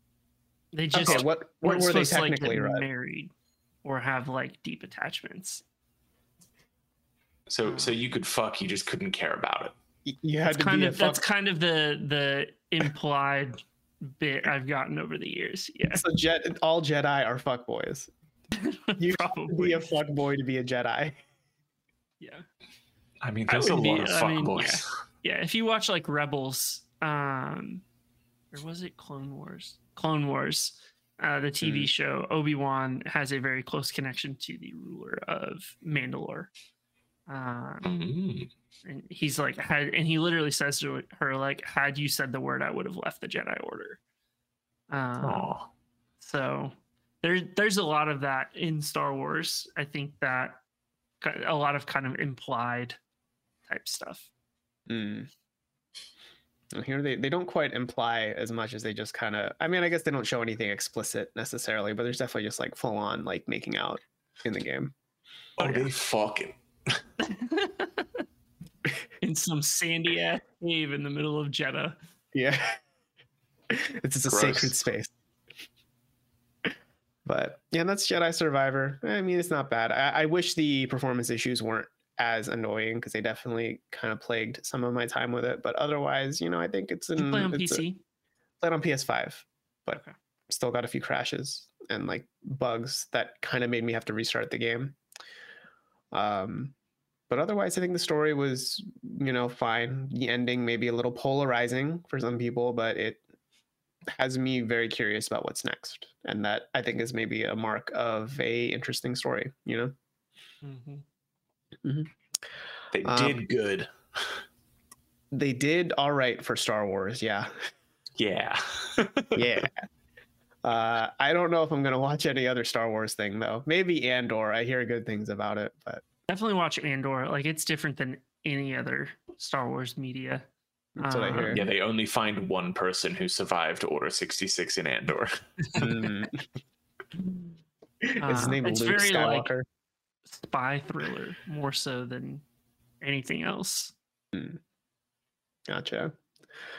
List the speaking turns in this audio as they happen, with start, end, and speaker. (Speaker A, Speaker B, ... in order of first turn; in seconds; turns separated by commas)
Speaker A: 0.7-3.3, Speaker B: 0.9-2.9, Speaker A: 3.8-5.6, Speaker C: 7.5-9.7, Speaker A: 7.6-7.9, Speaker B: 10.0-11.2, Speaker A: 10.4-16.1, Speaker B: 15.9-18.1, Speaker A: 18.6-19.9, Speaker B: 19.0-21.2, Speaker A: 22.2-22.4, Speaker C: 23.2-24.9, Speaker A: 23.5-27.8, Speaker A: 28.5-36.5, Speaker B: 31.6-31.9, Speaker A: 37.3-37.9, Speaker C: 37.8-38.5, Speaker A: 38.8-44.0, Speaker A: 44.9-45.5, Speaker C: 45.2-45.7, Speaker A: 46.2-50.6, Speaker A: 51.2-53.0, Speaker A: 53.7-54.3, Speaker B: 54.9-55.3, Speaker B: 56.7-64.9, Speaker C: 65.6-67.0, Speaker A: 65.6-65.9, Speaker A: 67.2-68.2, Speaker A: 69.2-72.0, Speaker B: 72.3-72.8, Speaker B: 73.7-75.1, Speaker C: 74.3-74.8, Speaker B: 77.2-87.8, Speaker A: 87.2-88.0, Speaker B: 88.6-95.0, Speaker B: 96.1-96.7, Speaker B: 97.3-103.2, Speaker B: 104.1-109.9, Speaker A: 110.6-111.0, Speaker B: 111.8-112.1, Speaker C: 112.9-114.4, Speaker B: 113.0-113.3, Speaker B: 115.3-117.5, Speaker C: 118.2-119.5, Speaker B: 119.3-119.8, Speaker B: 120.6-126.0, Speaker A: 126.3-130.5, Speaker B: 130.9-131.6, Speaker A: 131.0-131.6, Speaker C: 131.5-135.9, Speaker B: 135.8-136.4, Speaker B: 138.1-139.7, Speaker A: 138.2-139.5, Speaker A: 140.3-142.4, Speaker A: 143.0-143.9, Speaker B: 144.3-144.6, Speaker B: 145.7-146.1